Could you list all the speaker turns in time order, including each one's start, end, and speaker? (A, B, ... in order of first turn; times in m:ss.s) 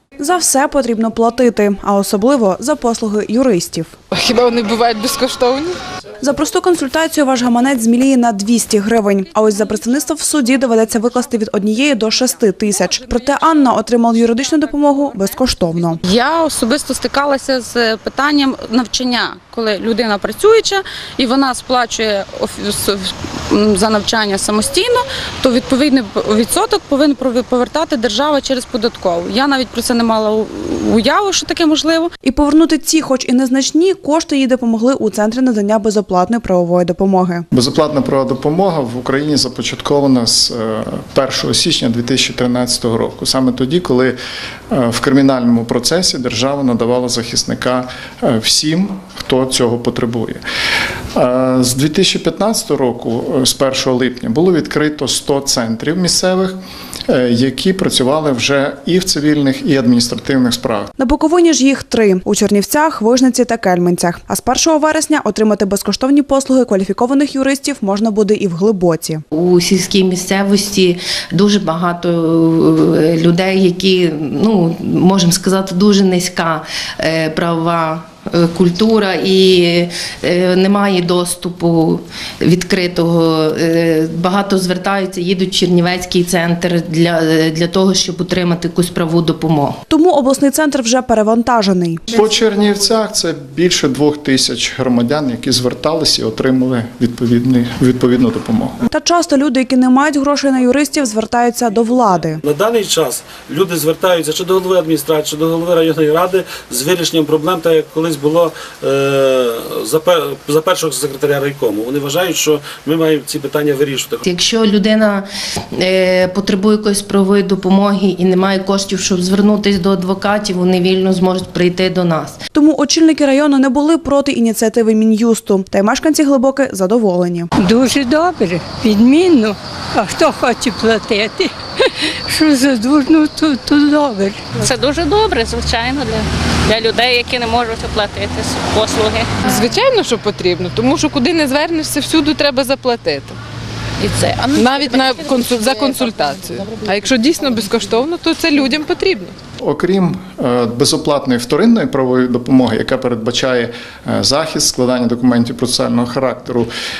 0:00.2-0:03.9 A
0:04.1-0:05.8 B
0:06.2-0:16.0 A
0:16.0-0:32.1 C
0:32.2-0:37.5 A
0:37.5-0:44.2 D
0:44.7-0:50.4 D
0:51.1-1:00.9 D
1:01.0-1:09.2 A
1:09.4-1:29.8 E
1:29.9-1:32.0 A
1:32.1-1:38.8 D
1:38.9-1:42.4 A
1:42.4-1:54.2 F
1:54.2-2:02.4 E
2:02.5-2:07.5 A
2:07.7-2:11.4 G
2:12.4-2:14.4 G
2:14.6-2:19.3 H
2:19.4-2:23.4 B
2:24.0-2:25.9 H
2:24.5-2:29.4 B
2:29.6-2:36.7 D